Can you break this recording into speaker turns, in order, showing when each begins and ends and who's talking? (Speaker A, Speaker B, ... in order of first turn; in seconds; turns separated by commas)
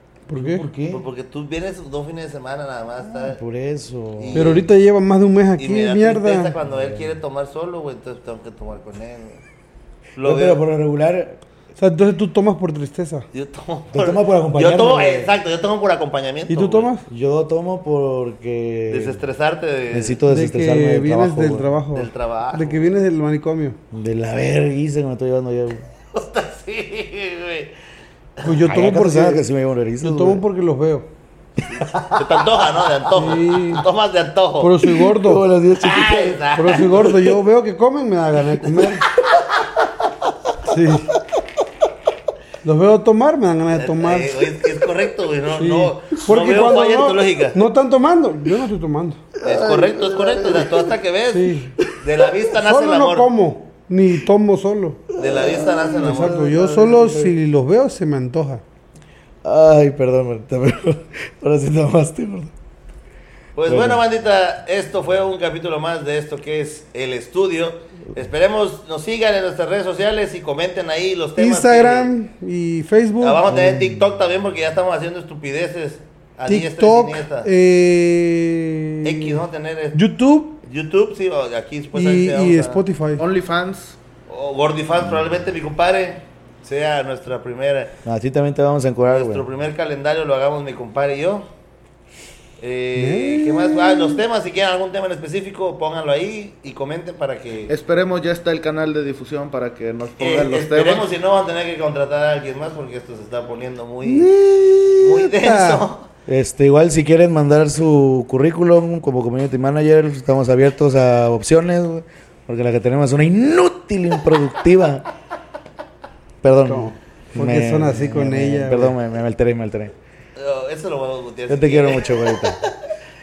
Speaker A: 0.3-0.7, Speaker B: 0.3-1.0, Speaker C: 0.9-3.4, Speaker B: 3.0-4.7, Speaker C: 4.2-4.7, Speaker A: 4.3-6.5, Speaker C: 5.6-9.4, Speaker B: 6.7-7.2, Speaker C: 10.2-10.6, Speaker B: 10.2-11.4, Speaker A: 11.8-13.3, Speaker C: 13.3-16.9, Speaker B: 13.9-15.3, Speaker A: 16.5-17.1, Speaker B: 17.1-19.2, Speaker C: 18.9-20.2, Speaker B: 19.9-21.7, Speaker A: 20.3-23.8, Speaker C: 21.9-22.9, Speaker B: 23.9-25.9, Speaker C: 26.1-27.7, Speaker A: 28.4-29.4, Speaker B: 28.7-30.4, Speaker A: 30.0-31.1, Speaker B: 31.6-32.5, Speaker C: 31.7-35.0, Speaker A: 33.1-33.9, Speaker A: 34.6-35.4, Speaker B: 35.1-36.5, Speaker C: 35.8-37.3, Speaker A: 36.5-39.0, Speaker A: 40.6-41.1, Speaker A: 42.6-44.5, Speaker C: 43.7-47.6, Speaker A: 45.5-49.3, Speaker B: 49.4-50.9, Speaker C: 49.4-53.3, Speaker A: 51.3-51.8, Speaker A: 52.5-55.1, Speaker C: 55.2-56.6, Speaker B: 55.4-57.3, Speaker A: 55.9-58.6, Speaker B: 59.4-62.5, Speaker C: 63.6-72.1, Speaker B: 63.7-64.0, Speaker A: 71.4-73.4, Speaker C: 73.2-77.5, Speaker B: 73.5-73.8, Speaker A: 76.5-79.4, Speaker C: 79.0-80.0, Speaker A: 79.9-80.6, Speaker C: 80.7-82.8, Speaker A: 82.0-83.2, Speaker D: 83.2-84.0, Speaker C: 84.3-87.9, Speaker B: 88.0-89.5, Speaker C: 89.1-91.5, Speaker C: 92.6-97.7, Speaker A: 93.0-94.2, Speaker D: 97.7-101.1, Speaker C: 100.2-104.3, Speaker A: 104.0-105.8, Speaker C: 105.0-106.0, Speaker B: 106.3-115.1, Speaker B: 116.4-120.0, Speaker A: 116.7-119.0, Speaker C: 120.4-122.8, Speaker B: 121.5-122.6